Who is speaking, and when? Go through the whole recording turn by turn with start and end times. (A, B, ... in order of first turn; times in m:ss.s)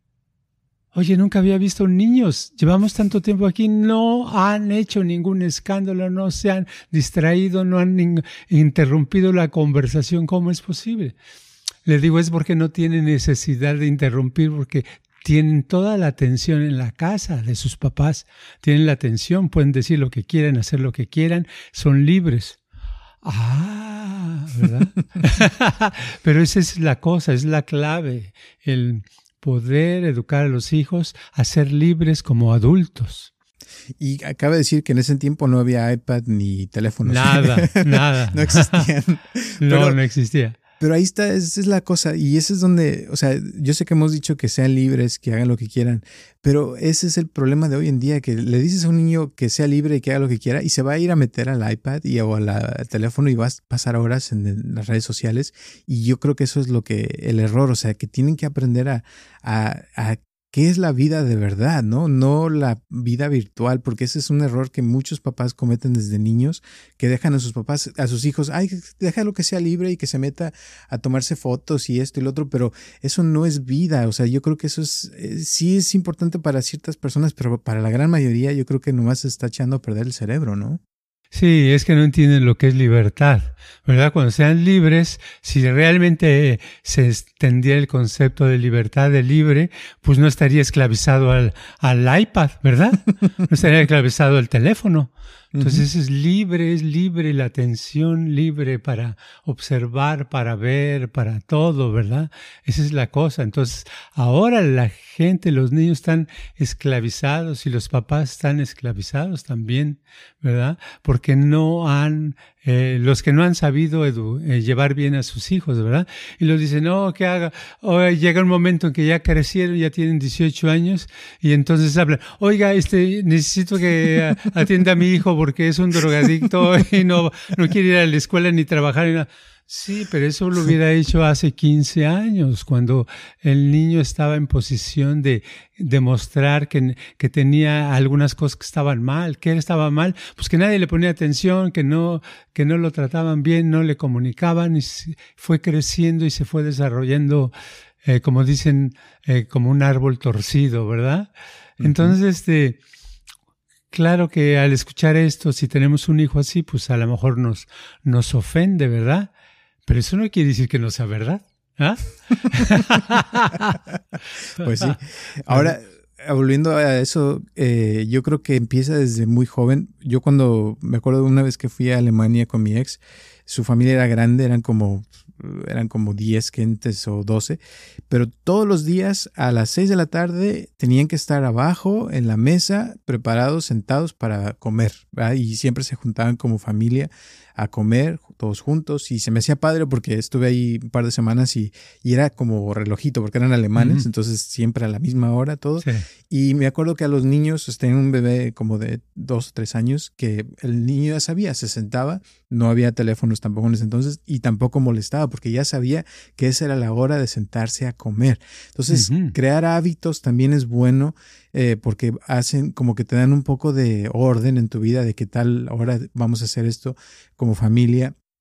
0:00.9-0:11.2 A
0:11.9-0:22.6 A
0:23.2-0:33.3 A
0:34.0-0:40.0 B
0:37.0-0:38.9 A
0:39.6-0:40.6 A
0:40.8-1:20.8 B
1:21.3-2:27.5 A
1:35.5-1:35.9 B
2:28.0-2:32.8 A
2:31.8-2:32.2 B
2:33.9-2:39.3 A
2:39.9-2:43.8 A
2:44.6-2:45.0 A
2:44.6-3:38.2 B
2:45.5-2:45.7 A
3:13.8-3:14.1 A
3:28.9-3:29.4 A